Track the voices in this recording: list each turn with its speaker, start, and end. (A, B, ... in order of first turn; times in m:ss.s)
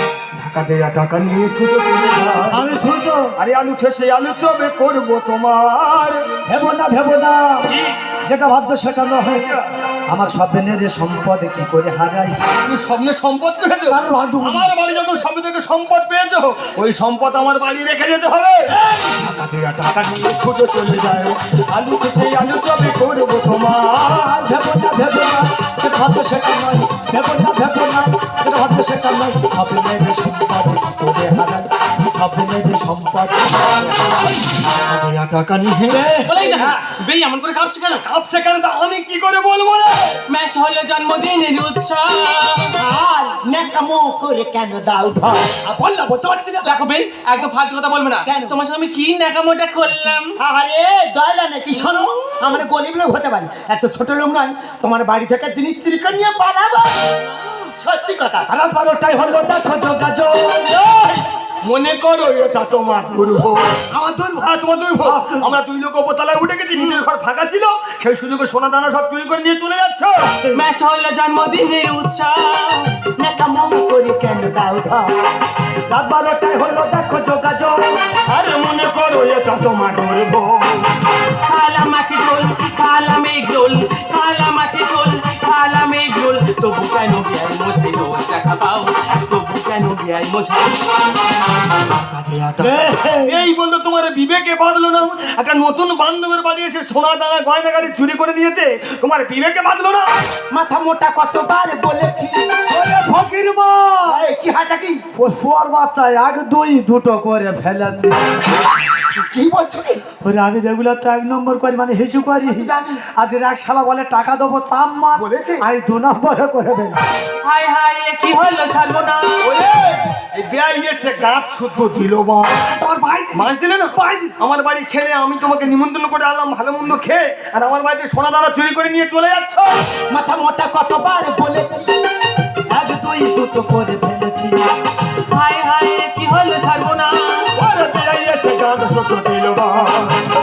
0:00.3-0:02.7 A
0:02.2-0:03.4 B
0:03.4-0:06.3 A
0:06.4-0:07.7 B
0:07.7-0:08.0 A
0:08.2-0:09.5 B
0:09.3-0:09.6 A
0:10.1-0:12.4 B
0:12.6-0:24.4 A
0:13.9-0:14.7 B
0:24.1-0:34.1 B
0:34.6-0:36.0 A
0:35.9-0:36.6 B
0:36.2-0:38.0 C
0:38.0-0:40.2 A
0:40.3-0:42.8 C
0:42.8-0:45.6 D
0:45.6-0:46.6 A
0:46.6-0:50.4 C
0:48.2-0:48.6 D
0:50.4-0:57.2 D
0:57.8-0:58.5 D
0:58.5-1:00.8 B
1:00.6-1:03.9 A
1:03.9-1:05.6 B
1:04.4-1:10.5 A
1:10.5-1:12.9 C
1:13.2-1:15.2 D
1:15.9-1:17.8 B
1:18.3-1:21.0 A
1:21.4-1:31.0 C
1:32.6-1:33.4 B
1:32.6-1:40.1 A
1:40.5-1:42.6 D
1:42.7-1:44.3 B
1:44.1-1:45.0 D
1:45.2-1:48.3 B
1:49.1-1:50.0 D
1:50.2-1:57.0 B
1:52.4-1:53.0 D
1:55.1-1:55.6 D
1:57.4-1:59.5 C
1:59.4-2:02.7 A
2:02.6-2:04.4 B
2:03.3-2:10.0 A
2:10.1-2:12.0 D
2:12.7-2:14.7 B
2:15.3-2:17.5 C
2:17.6-2:20.2 A